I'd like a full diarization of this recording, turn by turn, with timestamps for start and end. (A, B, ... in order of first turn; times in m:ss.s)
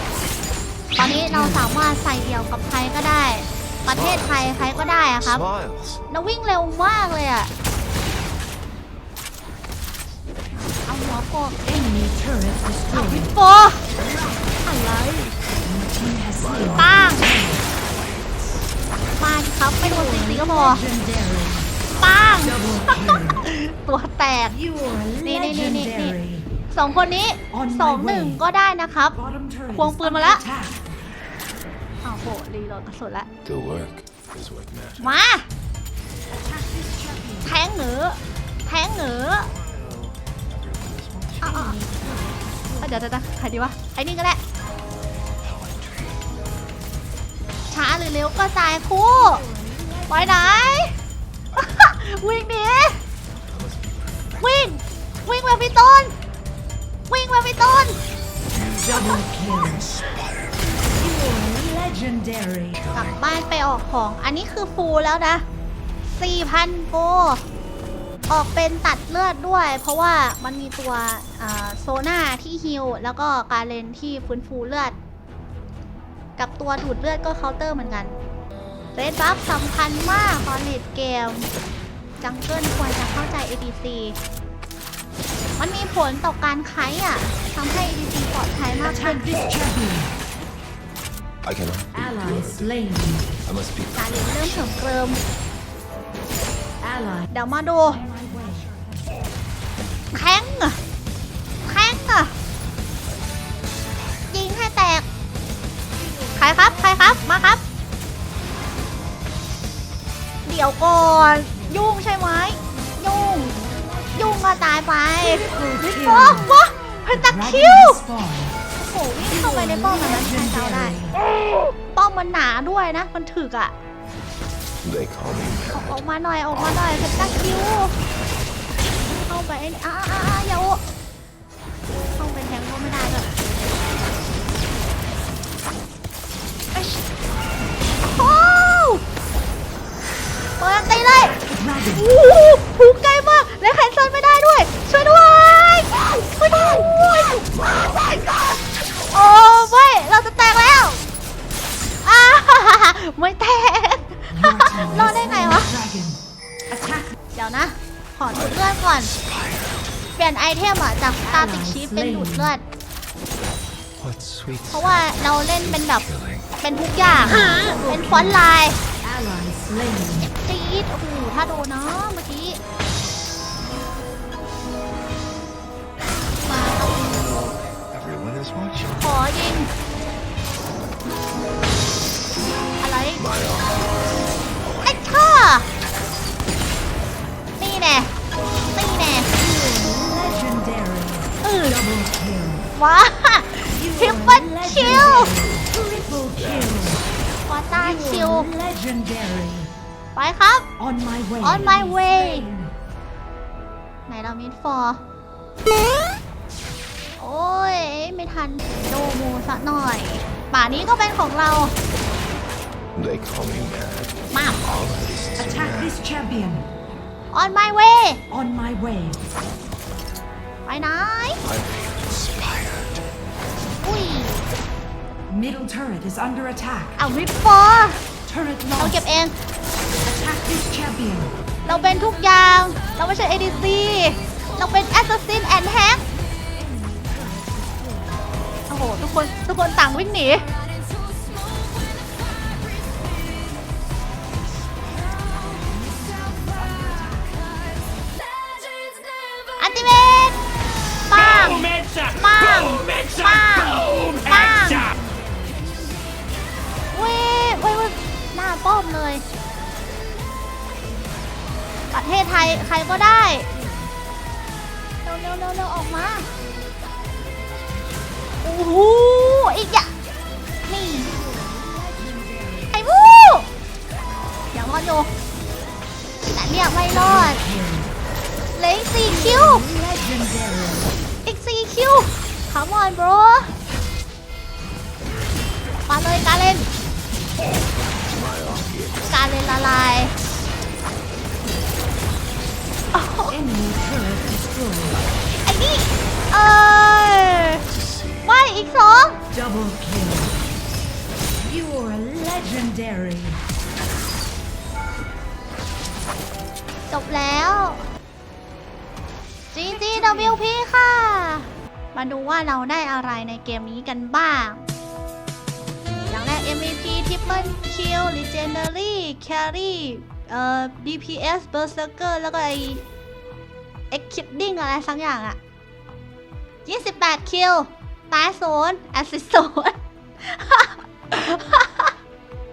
0:01.0-0:05.4 A
0:01.1-0:01.7 B
0:03.9-0:06.0 C
0:06.1-0:07.5 A
0:10.5-0:11.6 A
0:11.6-0:13.3 B
0:12.9-0:13.8 A
0:14.6-0:15.3 A
0:15.6-0:17.6 B
0:16.3-0:18.7 C
0:16.8-0:17.2 A
0:19.2-0:20.8 A
0:19.8-0:21.7 B
0:22.0-0:24.6 A
0:22.4-0:23.4 B
0:24.5-0:26.4 B
0:25.2-0:26.2 A
0:26.7-0:29.2 A
0:27.5-0:28.4 B
0:29.1-0:30.8 B
0:29.7-0:30.4 A
0:32.0-0:33.3 A
0:33.4-0:35.2 C
0:35.0-0:35.5 A
0:36.4-0:37.6 B
0:37.4-0:39.5 A
0:39.7-0:41.4 C
0:41.4-0:41.8 A
0:41.4-0:43.0 B
0:42.8-0:44.4 A
0:45.4-0:46.2 C
0:47.7-0:49.4 A
0:49.2-0:50.9 B
0:50.1-0:51.0 A
0:51.6-0:53.0 A
0:53.5-0:54.5 C
0:54.4-0:56.1 A
0:57.1-0:58.0 A
0:58.5-1:00.8 C
0:58.8-0:59.9 B
1:00.9-1:02.8 B
1:02.7-1:03.2 C
1:02.9-1:05.4 A
1:06.1-1:07.4 A
1:08.3-1:15.0 A
1:16.4-1:18.1 A
1:18.9-1:21.5 A
1:22.2-1:24.2 A
1:25.6-1:29.2 A
1:28.8-1:30.1 B
1:31.4-1:32.7 C
1:31.9-1:33.2 B
1:33.3-1:35.0 C
1:33.9-1:35.2 A
1:36.8-1:37.3 B
1:37.3-1:38.0 A
1:37.9-1:39.2 B
1:40.1-1:40.8 A
1:41.6-1:42.3 A
1:44.3-1:45.0 A
1:46.0-1:47.4 B
1:46.4-1:47.6 A
1:50.4-1:53.6 A
1:51.5-1:51.9 B
1:53.4-1:54.6 B
1:54.1-1:58.0 A
1:55.2-1:56.5 B
1:57.1-1:58.6 B
1:58.7-2:01.0 A
1:59.2-2:01.2 B
2:01.9-2:03.7 A
2:04.8-2:07.9 C
2:05.7-2:07.9 A
2:09.0-2:10.8 A
2:12.1-2:13.3 A
2:18.1-2:19.0 A
2:20.6-2:28.6 A
2:21.6-2:22.0 B
2:27.5-2:29.4 C
2:29.1-2:31.0 A
2:32.0-2:35.7 A
2:34.3-2:36.2 B
2:36.7-2:37.1 B
2:37.3-2:39.1 A
2:38.3-2:39.9 C
2:40.2-2:42.6 A
2:41.2-2:42.5 B
2:44.0-2:46.5 C
2:44.7-2:46.0 A
2:46.6-2:48.8 A
2:47.2-2:48.4 B
2:49.0-2:50.3 B
2:50.4-2:52.6 A
2:56.4-2:57.2 A
2:56.5-2:59.2 C
2:58.9-2:59.7 A
3:02.8-3:03.2 A
3:03.1-3:05.2 C
3:04.8-3:05.7 A
3:07.6-3:08.1 A
3:08.7-3:09.3 A
3:09.3-3:12.7 B
3:11.4-3:11.8 A
3:12.7-3:15.3 A
3:13.7-3:17.0 B
3:14.8-3:17.1 C
3:17.4-3:18.5 A
3:17.7-3:19.7 B
3:20.1-3:20.7 A
3:20.8-3:22.7 B
3:21.4-3:22.5 A
3:24.1-3:25.0 A
3:27.2-3:31.7 A
3:32.9-3:36.0 C
3:34.3-3:34.6 A
3:35.4-3:36.7 B
3:37.3-3:38.2 A
3:38.3-3:39.2 B
3:40.6-3:41.4 A
3:41.4-3:43.0 C
3:43.8-3:44.4 A
3:45.3-3:47.0 B
3:47.0-3:48.0 A
3:48.3-3:49.0 B
3:48.8-3:49.4 A
3:50.0-3:51.4 B
3:51.6-3:56.0 A
3:56.5-3:58.2 B
3:58.7-4:00.5 A
4:05.6-4:07.6 B
4:09.6-4:10.4 A
4:11.1-4:14.9 A
4:13.8-4:15.9 B
4:16.9-4:19.2 A
4:21.9-4:23.5 A
4:22.6-4:23.9 B
4:25.0-4:26.3 A
4:28.4-4:29.9 A
4:30.7-4:31.1 A
4:31.0-4:32.8 B
4:32.7-4:33.5 A
4:34.5-4:35.1 A
4:36.2-4:37.4 A
4:36.9-4:37.9 B
4:38.5-4:39.6 A
4:39.0-4:40.9 B
4:41.2-4:43.5 A
4:45.9-4:46.7 A
4:47.8-4:49.9 C
4:49.1-4:50.1 A
4:52.9-4:53.4 A
4:53.3-4:55.0 B
4:55.4-4:57.6 A
4:57.6-4:58.3 C
4:58.2-4:59.2 A
4:59.3-5:00.4 B
5:01.4-5:03.4 B
5:06.9-5:07.8 A
5:09.5-5:14.6 A
5:09.6-5:10.4 B
5:16.1-5:22.8 A
5:23.9-5:25.4 A
5:26.6-5:31.9 A